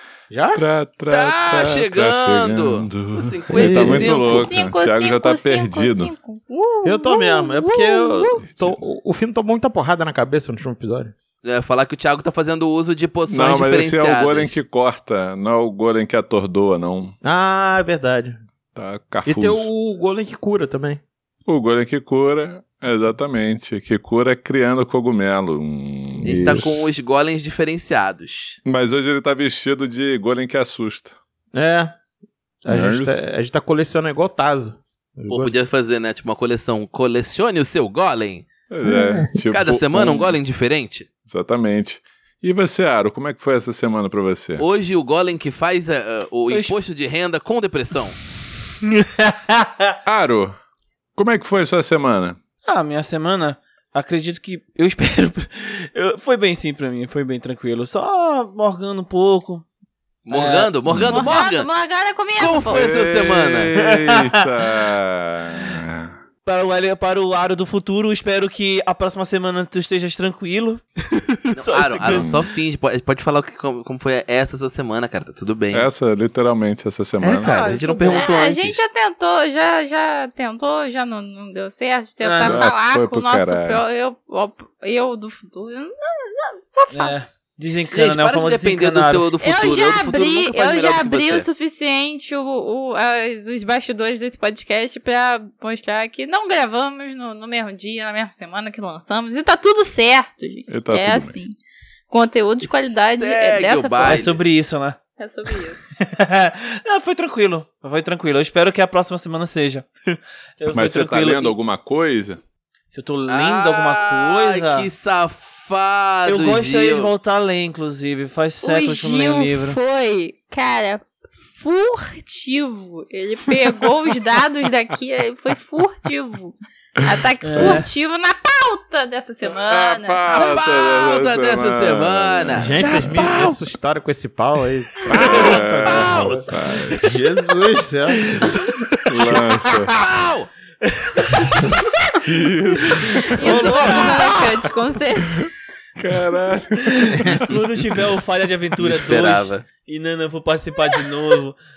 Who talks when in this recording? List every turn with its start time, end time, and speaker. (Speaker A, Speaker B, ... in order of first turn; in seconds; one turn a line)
Speaker A: 0.3-0.6
Speaker B: 0.5-6.1
Speaker C: 1.1-4.5
Speaker A: 3.5-4.2
Speaker D: 4.2-8.4
Speaker A: 6.8-11.1
Speaker B: 8.4-8.8
Speaker C: 11.4-14.6
Speaker B: 13.3-17.2
Speaker A: 17.2-18.4
Speaker B: 18.7-19.7
Speaker A: 19.3-21.0
Speaker B: 21.5-26.8
Speaker A: 26.2-26.7
Speaker C: 26.2-28.6
Speaker B: 28.6-31.2
Speaker A: 31.5-32.0
Speaker A: 32.6-35.5
Speaker B: 32.7-33.2
Speaker C: 35.3-38.5
Speaker B: 38.7-40.4
Speaker A: 38.9-39.4
Speaker C: 39.5-41.1
Speaker B: 41.2-44.6
Speaker C: 44.6-48.2
Speaker E: 49.0-49.9
Speaker B: 50.1-50.5
Speaker B: 51.2-52.4
Speaker E: 52.7-59.6
Speaker C: 60.3-61.7
Speaker E: 60.3-60.7
Speaker B: 60.9-61.3
Speaker D: 61.1-62.9
Speaker C: 62.4-63.7
Speaker B: 62.7-66.2
Speaker E: 63.8-64.4
Speaker E: 66.5-72.3
Speaker C: 71.5-75.9
Speaker B: 72.1-72.4
Speaker B: 75.7-77.8
Speaker C: 77.2-78.8
Speaker E: 77.4-78.4
Speaker D: 78.1-87.2
Speaker E: 82.2-82.6
Speaker B: 82.4-83.8
Speaker E: 86.9-89.3
Speaker C: 87.9-91.5
Speaker D: 89.4-101.6
Speaker B: 100.7-101.3
Speaker D: 102.1-104.2
Speaker C: 102.6-104.4
Speaker E: 104.0-105.0
Speaker D: 105.2-105.9
Speaker E: 106.0-111.5
Speaker B: 110.7-112.4
Speaker E: 112.9-114.9
Speaker C: 113.3-117.1
Speaker E: 116.3-119.8
Speaker D: 118.6-130.5
Speaker B: 127.0-127.8
Speaker E: 127.4-127.9
Speaker B: 129.5-133.2
Speaker C: 130.3-132.8
Speaker A: 132.6-135.5
Speaker E: 132.8-133.6
Speaker E: 135.0-137.0
Speaker B: 135.1-137.0
Speaker C: 135.9-136.4
Speaker A: 136.9-138.6
Speaker E: 138.4-139.9
Speaker B: 139.1-139.9
Speaker C: 139.9-140.5
Speaker E: 141.0-142.2
Speaker B: 142.2-144.1
Speaker E: 142.9-144.7
Speaker D: 143.3-145.4
Speaker C: 143.6-144.1
Speaker B: 145.3-147.5
Speaker E: 146.9-151.6
Speaker A: 147.1-147.4
Speaker C: 148.8-149.7